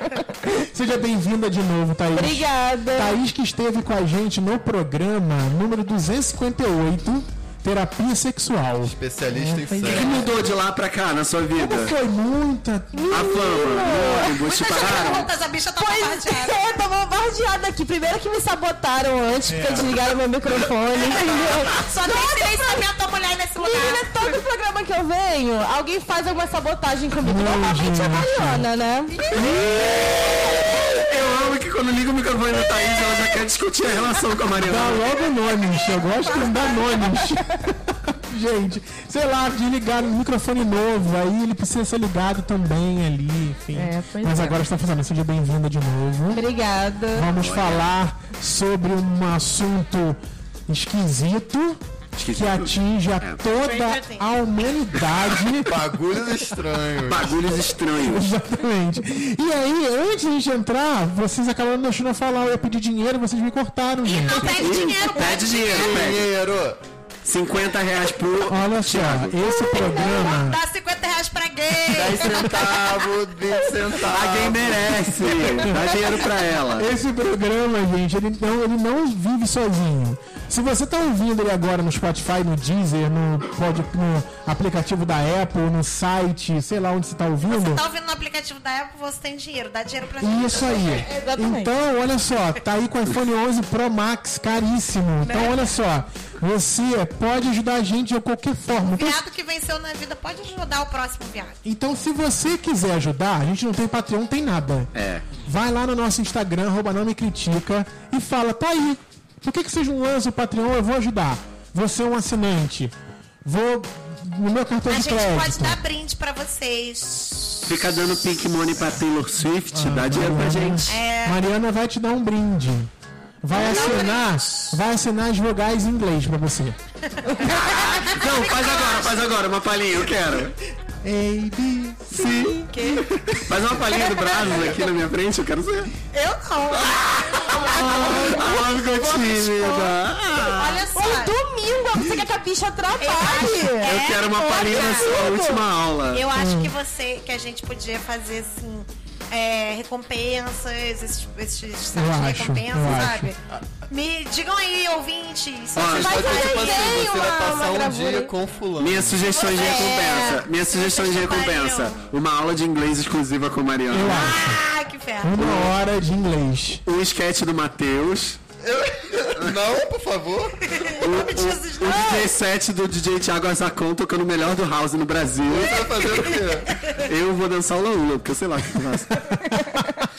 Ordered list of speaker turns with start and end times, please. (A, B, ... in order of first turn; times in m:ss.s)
0:00.4-0:10.3 A
0:02.2-0:03.2 B
0:08.8-0:10.3 C
0:09.8-0:11.9 D
0:11.6-0:13.4 A
0:12.9-0:14.3 B
0:13.1-0:15.3 D
0:14.4-0:16.6 E
0:15.8-0:22.9 B
0:19.5-0:20.0 A
0:21.1-0:24.1 E
0:23.6-0:29.2 B
0:27.2-0:28.7 A
0:29.1-0:30.1 E
0:29.3-0:29.8 A
0:29.6-0:35.0 D
0:34.5-0:46.4 A
0:36.5-0:37.3 B
0:43.7-0:44.6 B
0:46.3-0:47.3 B
0:47.1-0:55.7 A
0:47.4-0:47.9 D
0:52.2-0:53.4 D
0:53.6-0:54.3 E
0:55.7-0:57.6 C
0:57.1-0:58.3 D
0:58.0-1:04.7 A
1:04.0-1:06.1 E
1:04.4-1:06.3 D
1:05.7-1:06.8 C
1:07.2-1:10.2 D
1:08.5-1:10.6 A
1:09.8-1:12.9 E
1:11.9-1:15.8 C
1:14.1-1:16.9 D
1:15.6-1:16.0 A
1:16.8-1:27.8 A
1:27.4-1:31.0 E
1:30.2-1:39.2 A
1:30.7-1:31.7 B
1:35.2-1:35.6 E
1:38.9-1:41.6 E
1:41.6-1:44.9 A
1:44.9-1:45.2 D
1:45.4-1:55.8 A
1:54.9-1:57.8 E
1:57.6-2:01.0 D
1:59.7-2:02.9 A
2:00.9-2:01.4 E
2:03.4-2:06.8 A
2:03.5-2:04.3 E
2:03.6-2:04.1 D
2:07.1-2:09.2 E
2:07.4-2:10.6 D
2:11.0-2:12.5 A
2:12.1-2:15.9 D
2:12.7-2:13.1 E
2:14.0-2:14.4 E
2:16.1-2:21.4 E
2:16.7-2:20.9 D
2:21.0-2:24.0 B
2:23.0-2:25.2 E
2:23.8-2:26.2 D
2:24.7-2:25.6 B
2:26.1-2:37.1 E
2:26.3-2:26.7 A
2:31.9-2:33.3 A
2:35.8-2:36.2 D
2:35.8-2:39.4 C
2:35.9-2:38.3 B
2:38.8-2:44.4 D
2:39.3-2:42.0 E
2:39.5-2:40.4 B
2:43.9-2:44.6 A
2:44.0-2:45.4 E
2:45.2-2:46.8 A
2:45.4-2:45.7 D
2:46.9-2:48.4 D
2:48.6-2:50.8 C
2:50.7-2:52.3 E
2:51.0-2:56.4 D
2:55.4-2:56.8 C
2:56.9-2:59.3 D